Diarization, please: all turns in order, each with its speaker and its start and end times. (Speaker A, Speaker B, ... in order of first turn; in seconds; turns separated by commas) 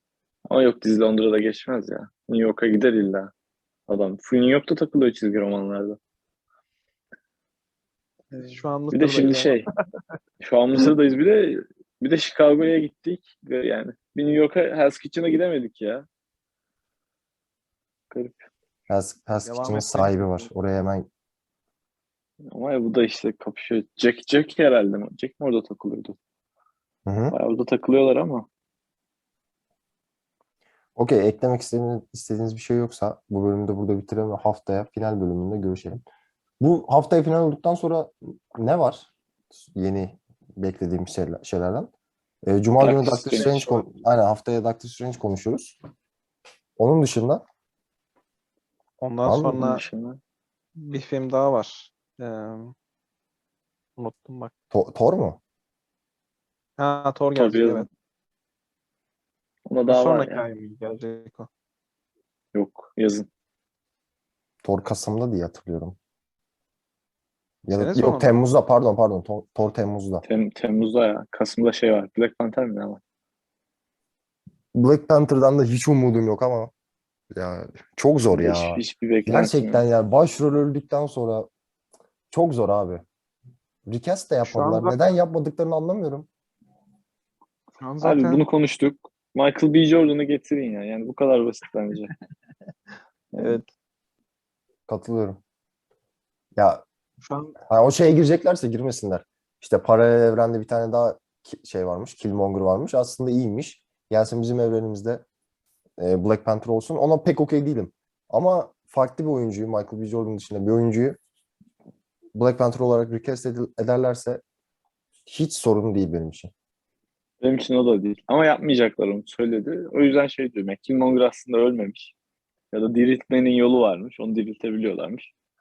Speaker A: 0.5-3.3, Speaker A: 3.9-6.0, Speaker B: 8.3-9.7, Speaker A: 8.9-9.7, Speaker A: 10.4-16.1, Speaker A: 18.1-18.4, Speaker C: 18.9-21.1, Speaker B: 19.4-20.5, Speaker A: 22.5-26.2, Speaker C: 27.1-27.4, Speaker A: 27.3-28.5, Speaker C: 31.0-36.0, Speaker C: 36.6-39.1, Speaker C: 39.7-41.9, Speaker C: 42.5-45.8, Speaker A: 42.8-43.8, Speaker C: 46.8-47.4, Speaker B: 49.0-49.8, Speaker C: 49.2-49.6, Speaker A: 49.5-50.2, Speaker B: 50.8-52.7, Speaker B: 54.0-54.5, Speaker C: 54.7-55.4, Speaker B: 56.8-57.9, Speaker A: 57.4-57.9, Speaker A: 59.7-60.5, Speaker B: 59.9-61.5, Speaker A: 62.5-63.3, Speaker C: 64.6-66.0, Speaker C: 67.7-70.2, Speaker B: 67.8-68.4, Speaker A: 70.2-73.0, Speaker C: 74.7-76.7, Speaker C: 77.3-81.5, Speaker A: 78.3-79.9, Speaker C: 82.3-83.0, Speaker C: 83.9-86.3, Speaker B: 84.4-85.0, Speaker B: 87.8-88.5, Speaker A: 88.0-92.1, Speaker A: 93.3-93.6, Speaker B: 93.4-93.7, Speaker C: 94.9-95.4, Speaker C: 96.6-96.8, Speaker B: 97.2-97.6, Speaker C: 97.7-105.2, Speaker C: 106.0-111.2, Speaker C: 112.3-114.4, Speaker C: 115.3-116.5, Speaker A: 117.4-122.1, Speaker A: 122.7-125.3